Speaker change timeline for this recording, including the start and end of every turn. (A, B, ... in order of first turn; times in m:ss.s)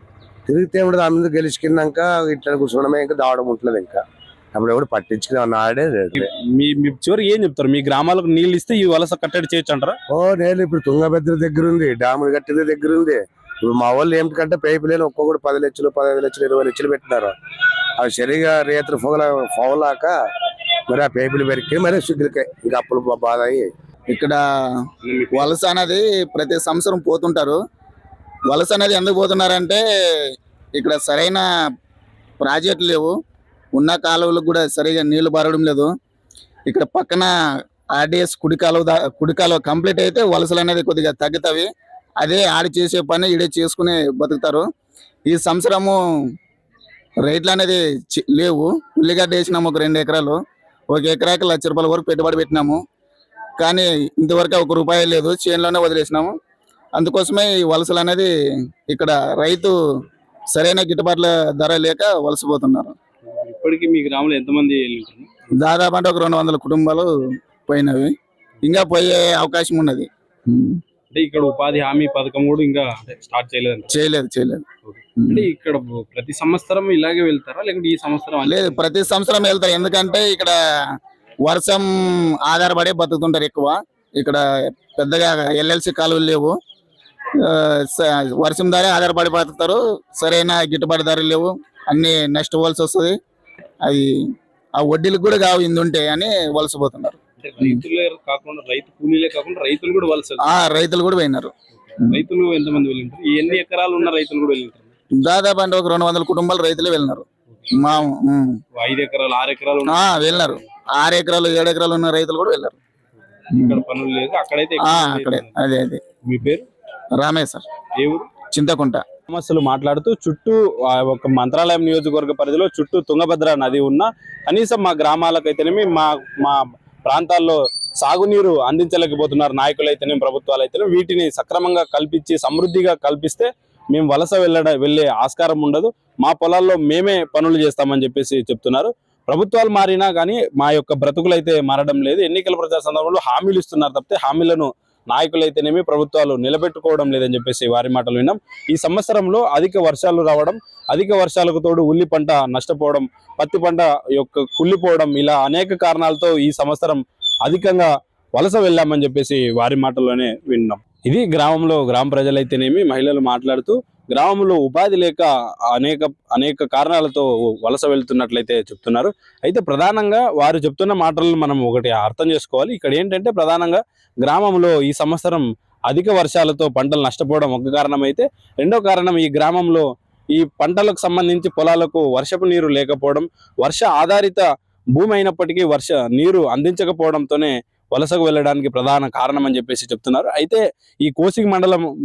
0:00.5-0:06.2 A
0:06.1-0:10.0 B
0:10.1-0:17.4 A
0:18.0-0:20.1 A
0:20.9-0:23.7 A
0:24.1-0:24.4 C
0:25.0-0:25.5 B
0:25.3-0:27.6 C
0:28.5-0:29.8 C
0:30.8-0:31.4 C
0:32.4-0:33.1 C
0:33.8-0:35.9 C
0:36.7-0:37.3 C
0:38.0-0:41.7 C
0:42.2-0:44.6 C
0:45.3-0:46.0 C
0:47.3-0:50.4 C
0:50.9-0:52.8 C
0:53.6-0:56.3 C
0:57.0-0:58.3 C
0:58.9-0:59.8 C
1:00.5-1:02.9 C
1:03.3-1:05.5 B
1:05.6-1:07.1 C
1:07.7-1:08.1 C
1:08.6-1:10.8 C
1:11.1-1:14.0 B
1:13.9-1:14.6 C
1:14.9-1:18.8 B
1:15.2-1:15.5 C
1:18.4-1:20.6 C
1:21.4-1:24.4 C
1:24.9-1:26.6 C
1:27.4-1:33.2 C
1:33.8-1:34.1 C
1:34.8-1:37.8 C
1:37.4-1:40.5 B
1:40.4-1:41.5 C
1:41.9-1:44.9 B
1:45.2-1:48.6 C
1:48.8-1:50.6 B
1:49.9-1:52.8 C
1:53.6-1:55.5 B
1:54.8-1:56.0 C
1:56.2-1:56.7 B
1:57.2-1:57.6 C
1:58.0-1:58.3 B
1:58.5-1:59.0 C
1:59.3-3:11.9 B